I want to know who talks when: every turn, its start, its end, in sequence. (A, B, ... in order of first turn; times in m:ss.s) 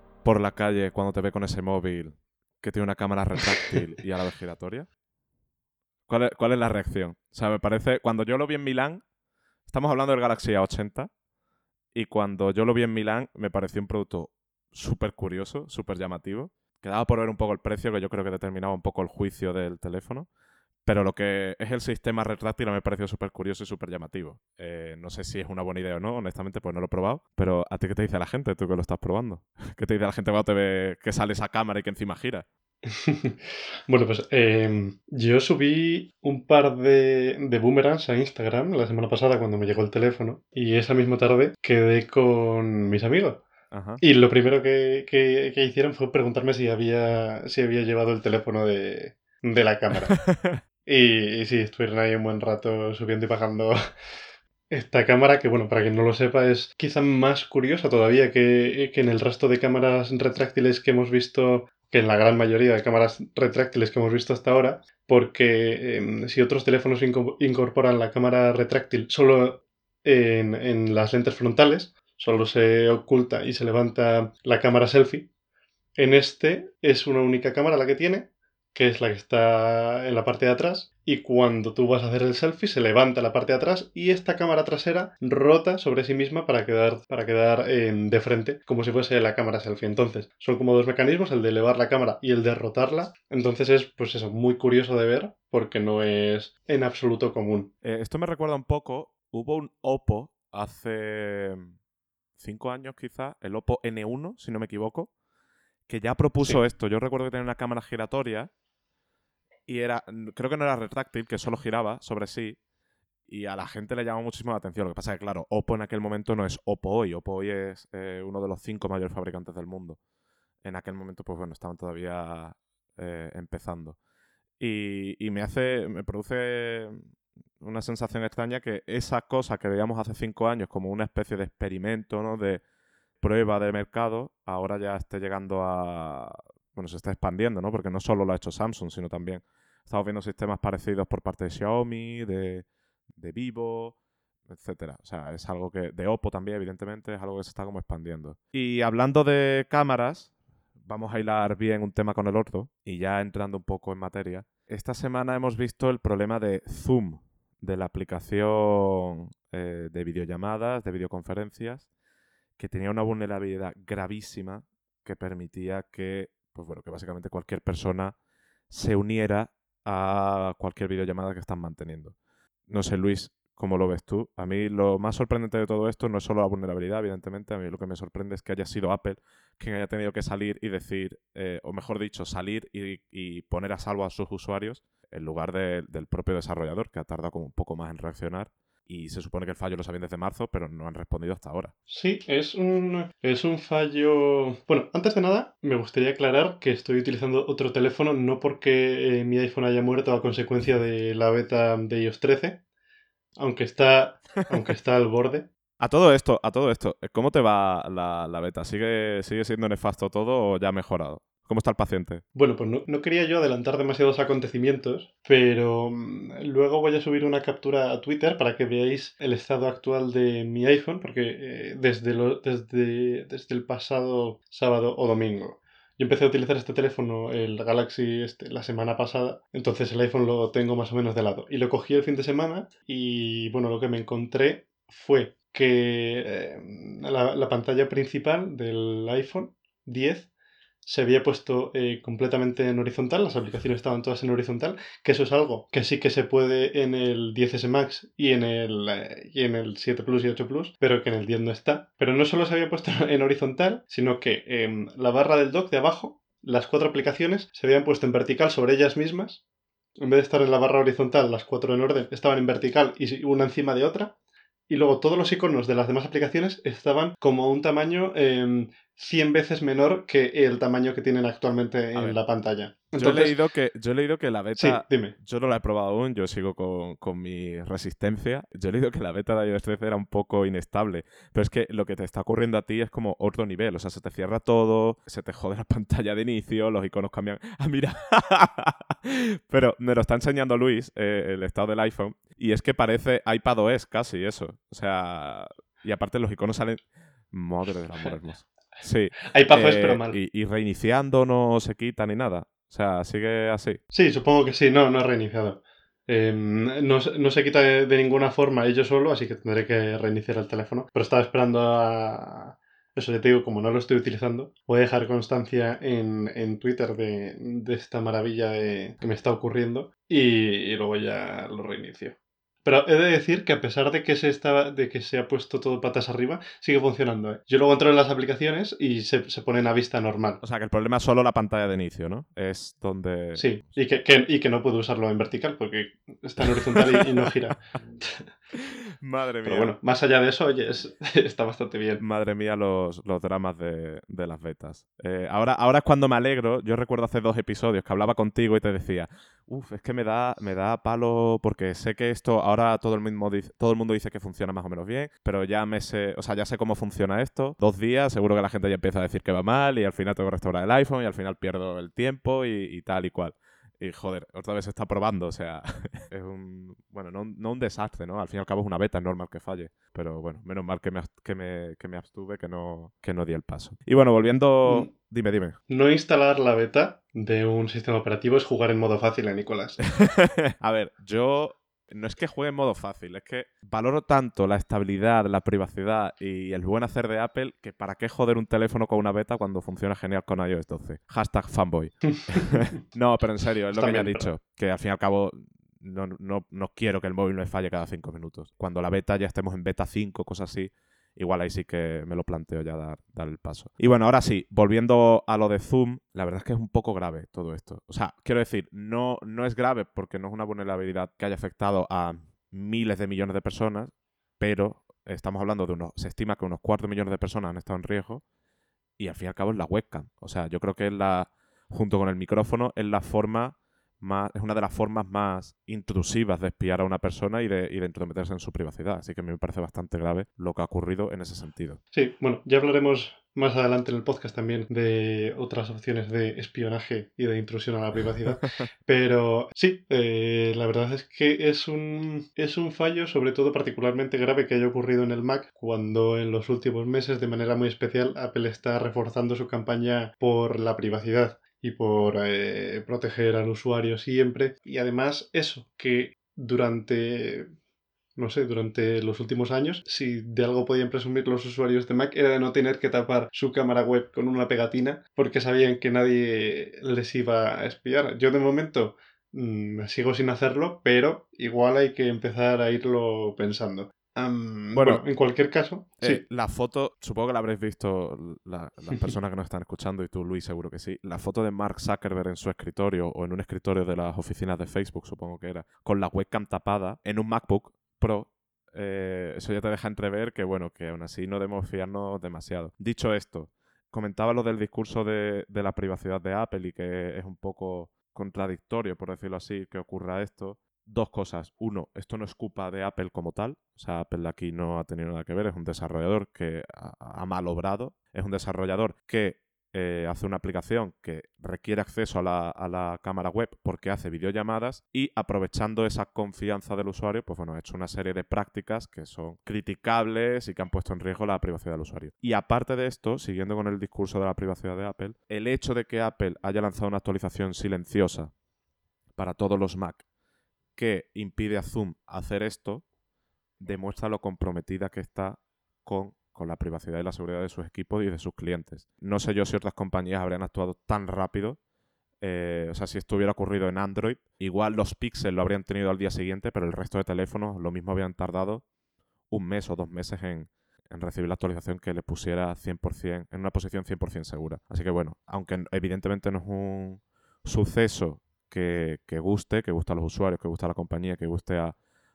0:00.2-0:04.9 A
0:06.1-0:09.0 A
0:09.7-0:11.1 A
0:11.9-0:20.3 A
0:20.9-0:32.5 A
0:32.9-0:43.4 B
0:43.7-0:44.0 A
0:44.0-0:50.2 B
0:50.1-0:50.6 A
0:50.9-0:53.8 B
0:54.7-1:15.3 B
1:16.0-1:37.7 B
1:37.8-1:41.7 A
1:42.4-1:45.1 A
1:45.9-1:48.5 A
1:49.7-1:52.6 A
1:53.3-2:00.0 A
2:00.6-2:04.0 A
2:04.6-2:07.1 A
2:07.6-2:12.6 A
2:13.2-2:30.3 A
2:30.8-2:41.9 A
2:42.6-2:48.2 A
2:48.7-2:52.2 A
2:52.7-3:11.7 A
3:11.9-3:22.6 B
3:23.4-3:25.5 B
3:25.8-3:32.2 A
3:32.4-4:00.3 B
4:00.8-4:19.4 B
4:20.0-4:24.2 B
4:24.7-4:33.4 B
4:32.0-4:32.2 A
4:33.0-5:03.8 A
4:34.6-4:35.2 B
4:59.3-5:00.2 B
5:03.9-5:30.4 B
5:30.4-5:33.8 A
5:33.3-5:38.3 B
5:36.5-5:36.8 A
5:38.5-5:39.8 A
5:39.4-5:42.0 B
5:42.0-6:15.6 A
6:14.6-6:14.9 B
6:15.7-6:19.8 B
6:19.9-6:58.2 A
6:32.1-6:32.7 B
6:33.7-6:34.3 B
6:59.0-7:11.8 A
7:11.9-7:37.5 B
7:38.2-7:56.2 B
7:54.7-7:55.0 A
7:56.0-8:48.3 A
8:49.2-8:50.0 A
8:50.8-8:52.8 A
8:53.6-9:01.6 A
9:02.2-9:08.6 A
9:09.3-9:21.8 A